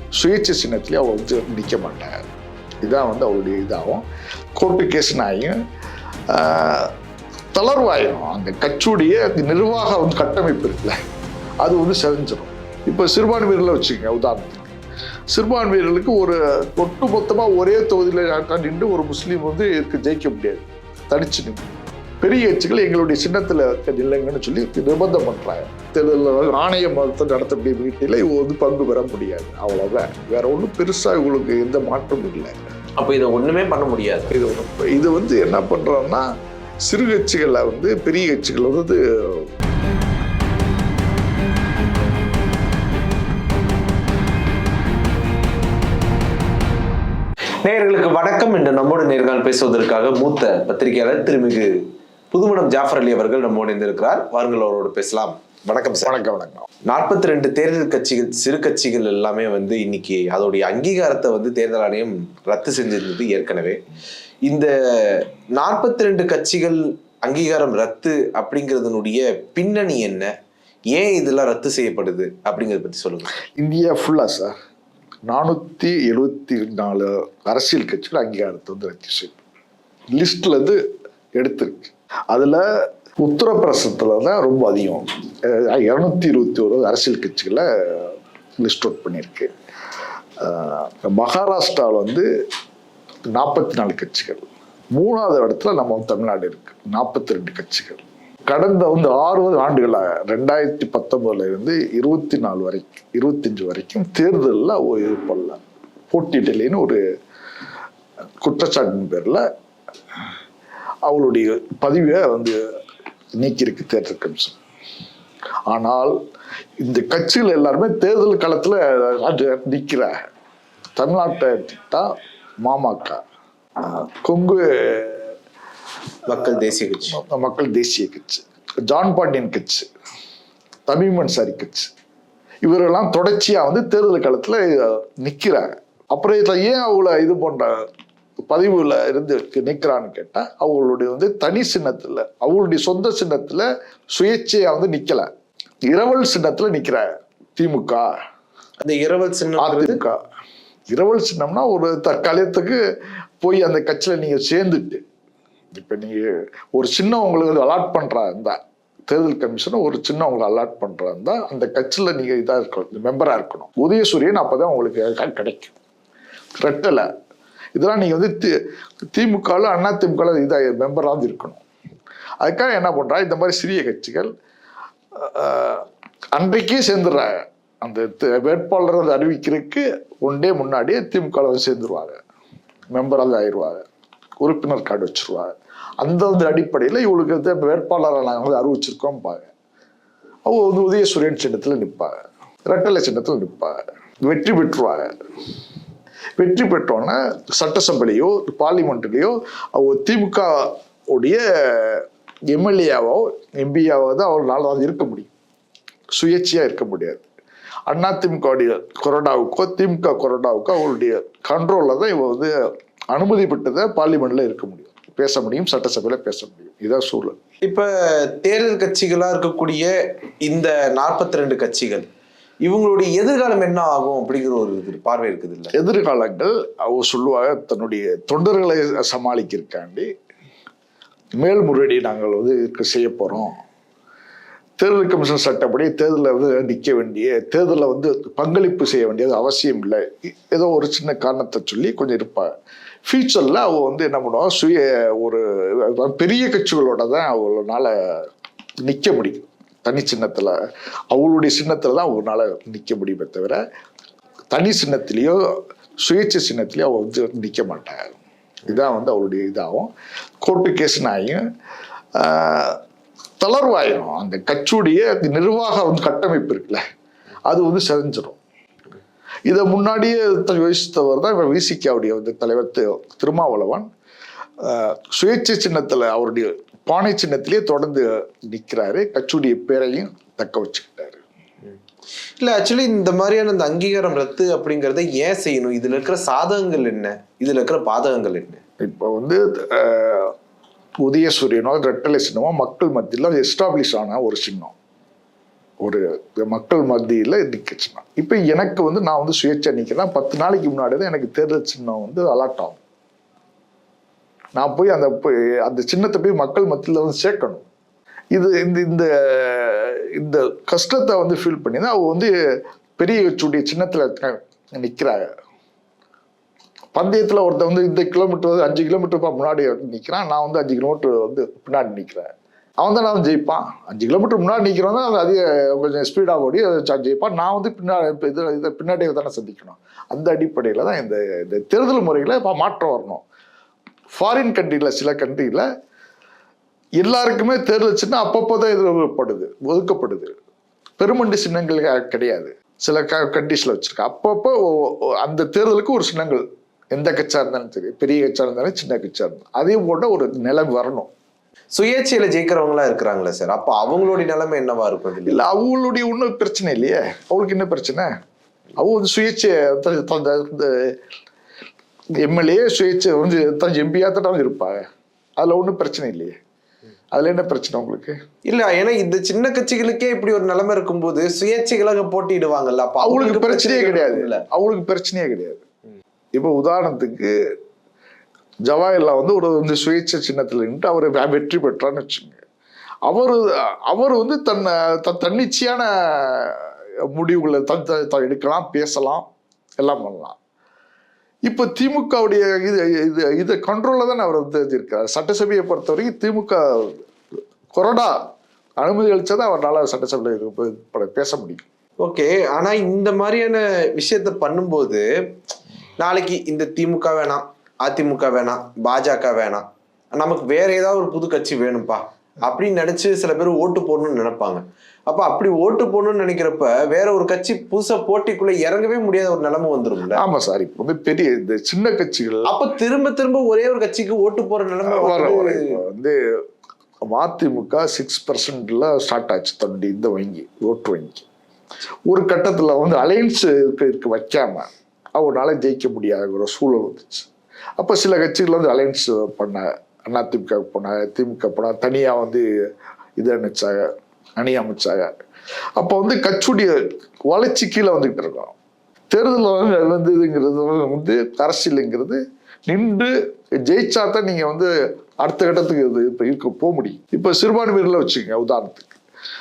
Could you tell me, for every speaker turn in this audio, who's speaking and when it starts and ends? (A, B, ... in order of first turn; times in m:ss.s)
0:00.2-0:02.1 A
0:02.8-0:04.0 A
0:04.6-0:05.6 A
0:06.3-0:06.9 A
0:07.6-0:11.0 A
0:11.6-0:14.7 A
0:15.3-0:21.7 A
0:22.2-0:32.6 A
0:33.0-0:34.3 B
0:34.3-0:36.3 A
0:36.8-0:39.5 A
0:47.6-0:51.7 B
0:52.3-0:56.1 B
0:56.0-0:56.7 A
0:56.9-1:03.8 B
1:04.5-1:10.3 B
1:10.9-1:13.3 B
1:13.6-1:14.6 A
1:15.3-1:19.4 A
1:20.1-1:20.8 A
1:21.4-1:22.6 A
1:23.2-1:29.5 A
1:30.4-1:32.3 A
1:33.3-1:47.0 A
1:48.4-1:49.4 A
1:51.0-1:52.6 A
1:53.4-1:54.6 A
1:55.7-1:56.2 A
1:56.8-2:00.1 A
2:01.0-2:02.1 A
2:02.6-2:03.2 A
2:03.8-2:05.3 A
2:06.3-2:07.2 B
2:07.1-2:09.9 A
2:10.9-2:11.9 A
2:12.6-2:17.8 A
2:18.5-2:25.3 A
2:25.9-2:28.1 A
2:28.8-2:30.0 B
2:29.6-2:30.2 A
2:30.9-2:32.8 A
2:33.4-2:35.0 A
2:35.7-2:38.6 A
2:39.1-2:45.8 A
2:46.6-2:47.1 A
2:47.8-2:48.6 A
2:49.1-2:51.6 A
2:52.4-2:54.3 A
2:55.2-3:02.2 A
3:02.9-3:03.8 A
3:04.4-3:09.5 A
3:10.5-3:12.1 A
3:12.7-3:15.2 A
3:16.4-3:25.3 A
3:26.1-3:27.3 A
3:27.9-3:32.5 A
3:33.1-3:37.4 A
3:37.6-3:42.1 B
3:42.6-3:45.7 B
3:45.8-3:50.1 A
3:51.4-3:53.6 A
3:54.8-4:02.5 A
4:03.1-4:07.9 A
4:08.8-4:10.6 A
4:11.1-4:13.6 A
4:14.5-4:15.4 A
4:16.0-4:19.9 A
4:20.4-4:21.4 A
4:22.2-4:22.8 A
4:23.4-4:26.8 A
4:27.5-4:28.4 A
4:29.5-4:33.9 A
4:34.6-4:41.2 A
4:42.4-4:48.6 B
4:48.8-4:50.3 A
4:51.0-4:54.8 A
4:55.8-5:02.8 A
5:04.6-5:07.7 A
5:08.3-5:12.3 A
5:13.0-5:15.3 A
5:16.9-5:22.3 A
5:22.8-5:33.2 A
5:34.1-5:35.7 A
5:37.0-5:40.4 A
5:41.0-5:51.1 A
5:51.7-5:55.4 B
5:55.3-5:58.1 A
5:58.8-6:01.0 A
6:02.2-6:04.8 A
6:05.4-6:06.4 A
6:07.1-6:08.2 A
6:08.4-6:14.4 B
6:13.0-6:15.6 A
6:16.3-6:17.3 A
6:18.7-6:22.4 A
6:23.1-6:29.3 A
6:29.8-6:30.4 A
6:31.5-6:37.0 A
6:37.7-6:38.2 A
6:38.8-6:41.6 A
6:42.0-6:45.1 B
6:46.0-6:49.6 B
6:50.2-7:00.2 B
7:00.2-7:02.5 A
7:02.5-7:05.7 B
7:04.9-7:06.2 A
7:07.1-7:11.3 A
7:12.1-7:17.3 A
7:17.8-7:22.4 A
7:23.2-7:23.9 A
7:24.4-7:25.1 A
7:25.8-7:26.8 A
7:27.3-7:28.6 A
7:29.1-7:33.1 A
7:33.7-7:34.7 A
7:35.2-7:38.9 A